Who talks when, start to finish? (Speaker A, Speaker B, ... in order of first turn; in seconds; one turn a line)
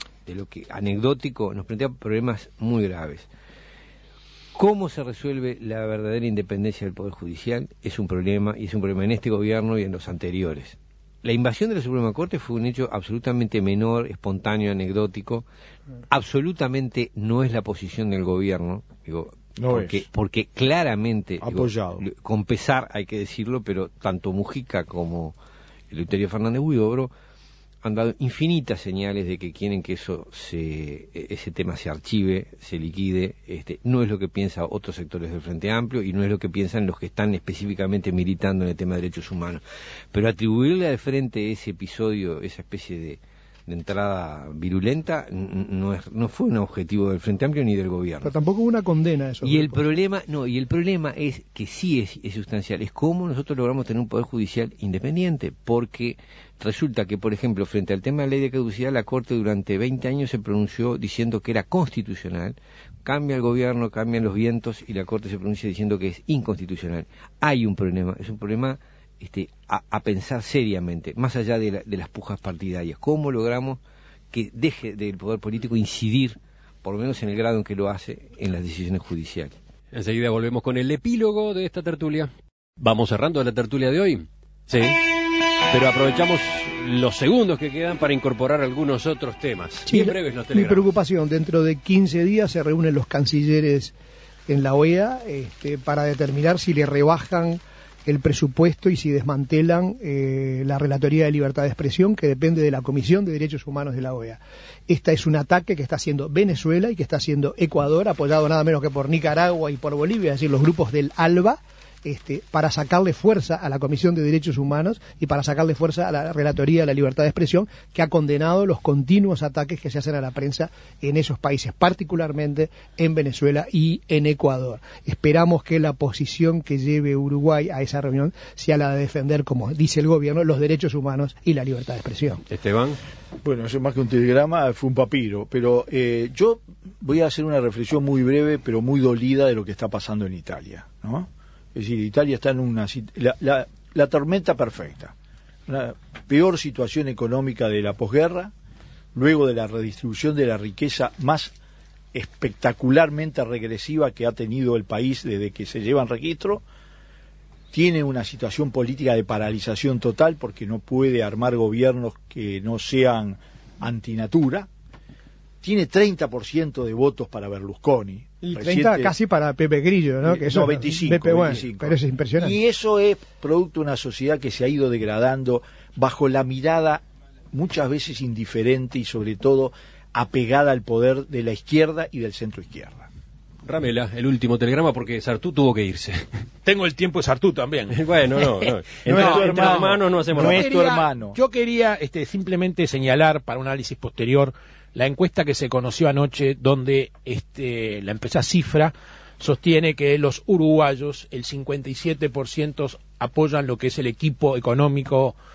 Speaker A: 0.2-3.3
Speaker A: 4.5-15.5
Speaker A: 16.1-25.3
Speaker B: 19.6-20.0
Speaker B: 21.4-22.0
Speaker A: 25.9-27.1
Speaker A: 27.8-48.3
Speaker C: 48.2-49.8
Speaker A: 49.4-79.5
Speaker D: 79.9-85.0
Speaker D: 85.7-90.9
Speaker C: 89.9-93.9
Speaker C: 94.5-132.4
Speaker D: 132.5-133.0
Speaker B: 133.4-145.1
Speaker B: 145.7-148.5
Speaker B: 149.1-151.5
Speaker B: 152.1-156.6
Speaker B: 157.7-164.7
Speaker B: 165.6-169.1
Speaker C: 168.4-172.6
Speaker B: 170.2-183.1
Speaker D: 183.6-186.2
Speaker E: 186.6-205.4
Speaker D: 187.9-190.7
Speaker B: 189.0-191.4